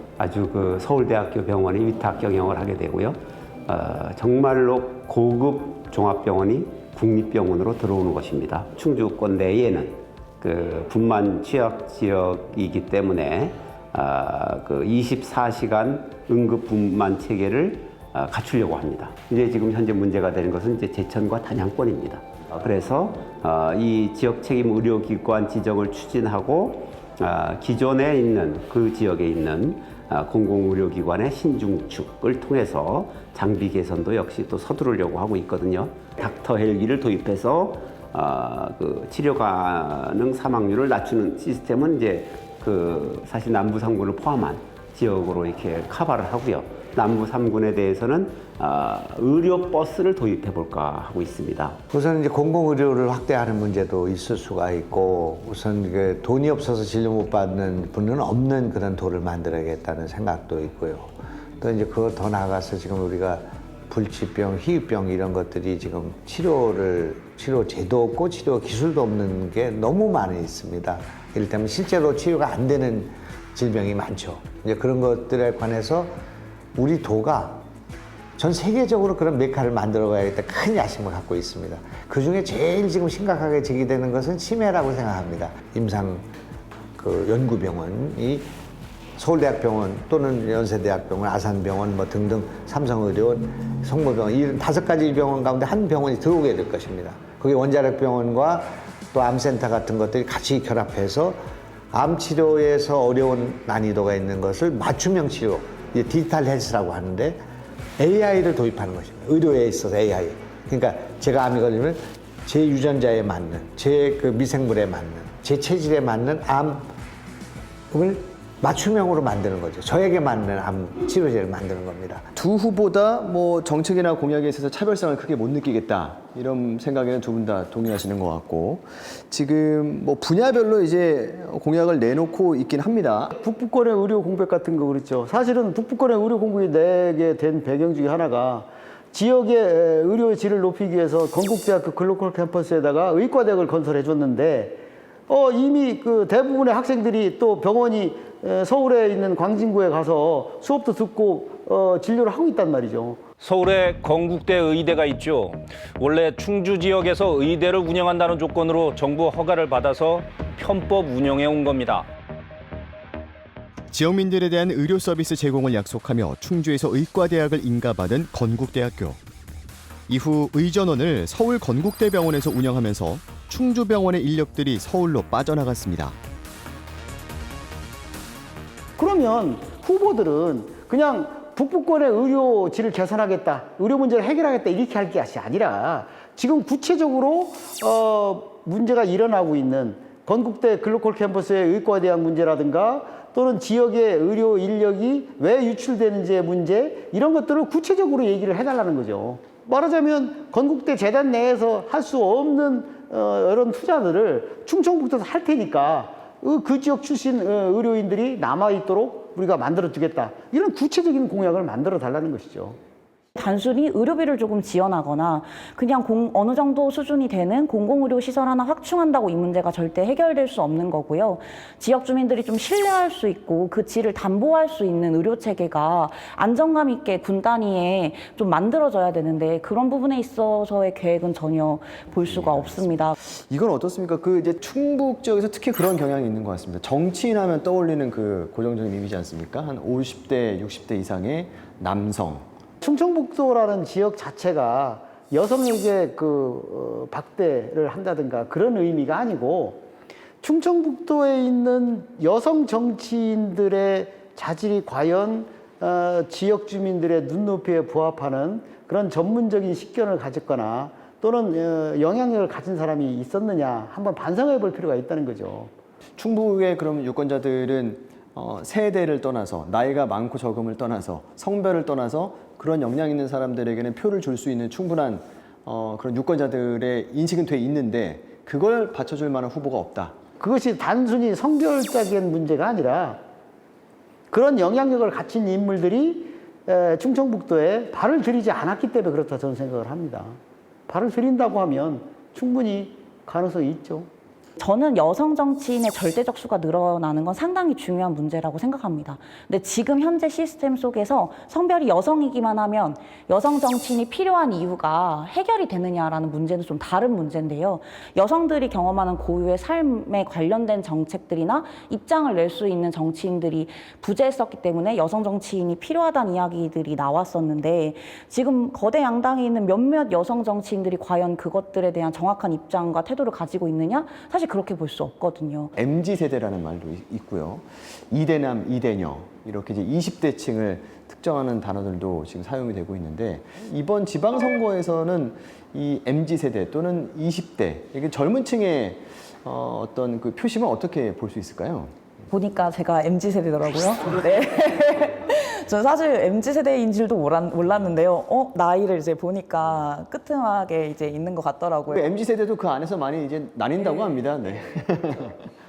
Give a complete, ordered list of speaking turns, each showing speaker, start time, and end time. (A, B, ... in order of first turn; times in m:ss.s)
0:00.2-0:51.8 A
0:51.9-1:16.1 B
1:16.8-1:17.6 B
1:18.4-1:26.3 B
1:27.0-1:28.5 B
1:29.2-1:41.4 B
1:41.9-1:47.4 B
1:48.0-1:56.9 B
1:57.9-2:02.3 B
2:02.3-2:13.3 C
2:13.4-2:33.2 D
2:33.4-2:42.1 E
2:43.9-2:49.2 F
2:50.1-2:56.2 F
2:59.0-3:32.8 D
3:33.4-3:53.2 G
3:52.3-4:02.5 C
4:02.8-4:09.8 D
4:10.4-4:25.7 D
4:26.2-4:40.2 C
4:40.4-4:43.2 D
4:44.3-4:54.1 D
4:54.6-5:25.7 G
5:25.8-5:41.9 C
5:42.3-5:52.1 G
5:51.9-5:55.4 C